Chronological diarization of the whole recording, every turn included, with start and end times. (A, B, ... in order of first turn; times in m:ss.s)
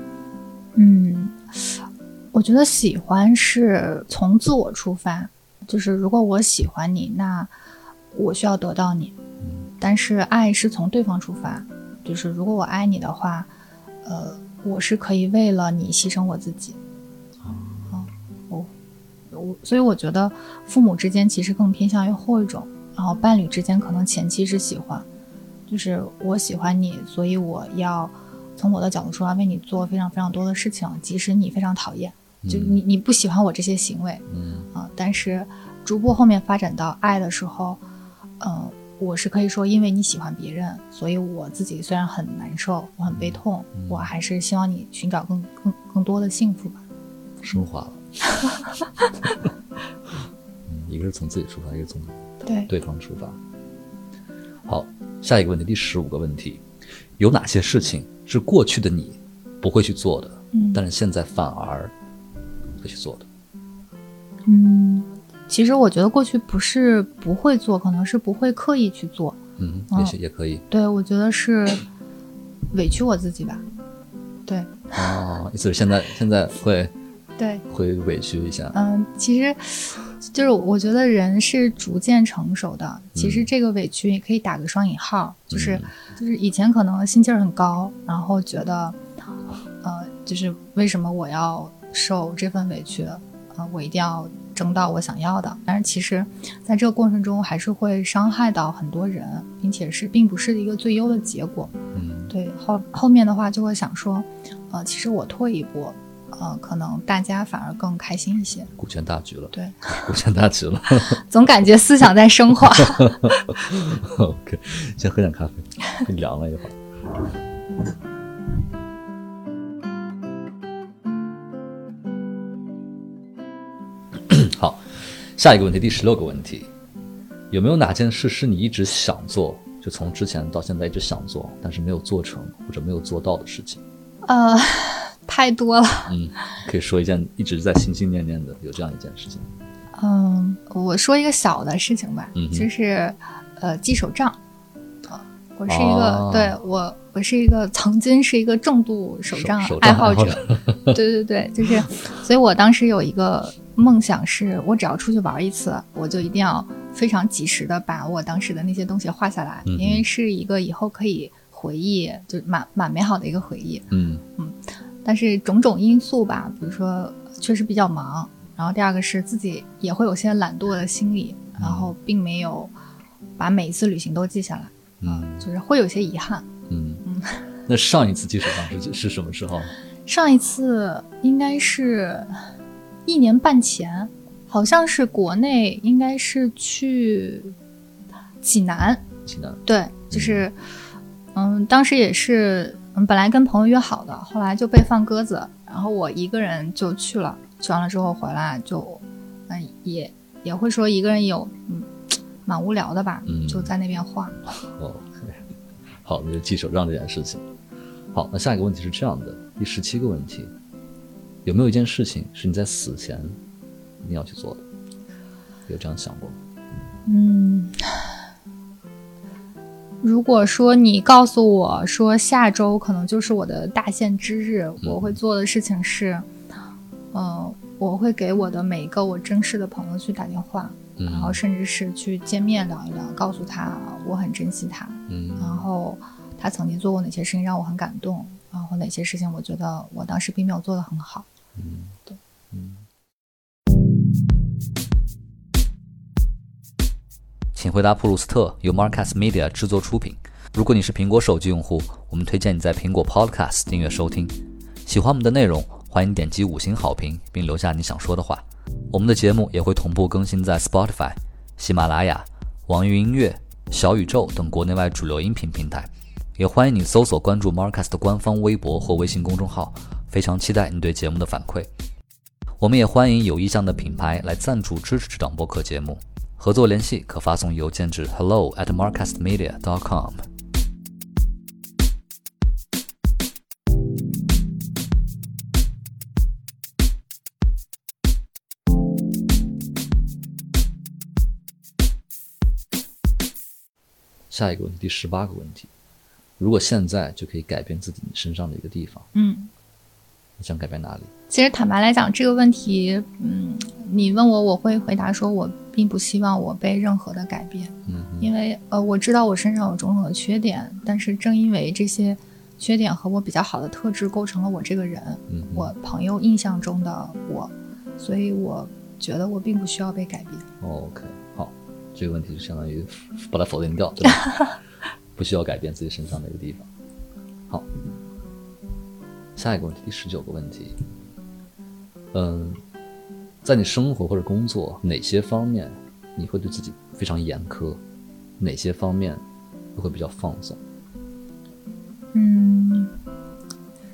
0:00.8-0:07.5 A
0:08.1-0:09.2 A
0:09.4-0:09.7 B
0:09.8-0:13.5 A
0:14.0-0:16.8 A
0:17.4-0:18.1 B
0:17.9-0:18.7 A
0:19.3-0:25.1 A
0:25.7-0:37.8 A
0:32.4-0:32.8 B
0:34.3-0:34.7 B
0:38.4-0:46.8 A
0:43.2-0:44.1 B
0:47.4-0:48.3 B
0:50.7-0:53.4 B
0:52.4-0:52.7 A
0:54.7-0:56.6 B
0:57.2-1:01.9 B
1:00.5-1:00.8 A
1:02.8-1:03.3 B
1:04.5-1:09.4 A
1:09.6-1:10.6 B
1:10.7-1:11.8 A
1:12.7-1:13.6 A
1:14.5-1:14.8 A
1:14.9-1:16.9 B
1:17.4-1:17.6 A
1:17.7-1:18.8 B
1:18.7-1:29.0 A
1:23.2-1:23.5 B
1:25.5-1:25.9 B
1:29.8-1:41.7 A
1:41.9-1:42.3 B
1:42.3-1:48.7 A
1:48.8-1:51.2 B
1:49.5-1:50.0 A
1:51.0-1:53.4 A
1:52.8-1:56.8 B
2:04.3-2:04.8 B
2:05.4-2:06.7 B
2:07.5-2:13.8 B
2:14.2-2:16.2 A
2:16.1-2:19.5 B
2:19.9-2:24.4 A
2:22.4-2:22.7 B
2:25.1-2:52.7 A
2:25.7-2:26.6 B
2:29.3-2:31.0 B
2:39.7-2:40.0 B
2:43.9-2:44.2 B
2:51.6-2:51.9 B
2:53.4-2:56.5 A
2:55.0-2:55.5 B
2:56.7-2:57.0 B
2:57.0-2:57.4 A
2:57.7-2:59.7 B
3:00.1-3:02.4 A
3:03.1-3:07.6 A
3:08.4-3:09.0 A
3:09.3-3:10.5 B
3:09.6-3:10.6 A
3:11.4-3:24.4 A
3:23.3-3:23.7 B
3:24.5-3:25.4 B
3:26.0-3:27.5 B
3:28.1-3:30.5 B
3:31.4-3:33.4 B
3:34.0-3:34.6 B
3:35.7-3:36.4 B
3:37.1-3:38.1 A
3:40.0-3:46.3 A
3:44.8-3:45.2 B
3:47.1-4:01.3 A
3:51.0-3:51.4 B
3:55.1-3:55.7 B
4:01.6-4:02.0 B
4:02.5-4:02.8 B
4:07.5-4:14.4 B
4:14.9-4:31.7 B
4:32.6-4:40.2 B
4:54.3-4:55.7 B
4:56.4-4:59.1 B
4:59.2-4:59.5 A
5:00.4-5:01.1 B
5:01.3-5:20.5 A
5:07.9-5:08.3 B
5:15.3-5:15.7 B
5:20.6-5:24.6 B
5:25.2-5:26.7 B
5:29.4-5:30.8 B
5:32.1-5:32.6 B
5:33.4-5:37.8 B
5:38.4-5:39.2 B
5:39.8-5:40.6 B
5:42.1-5:43.0 A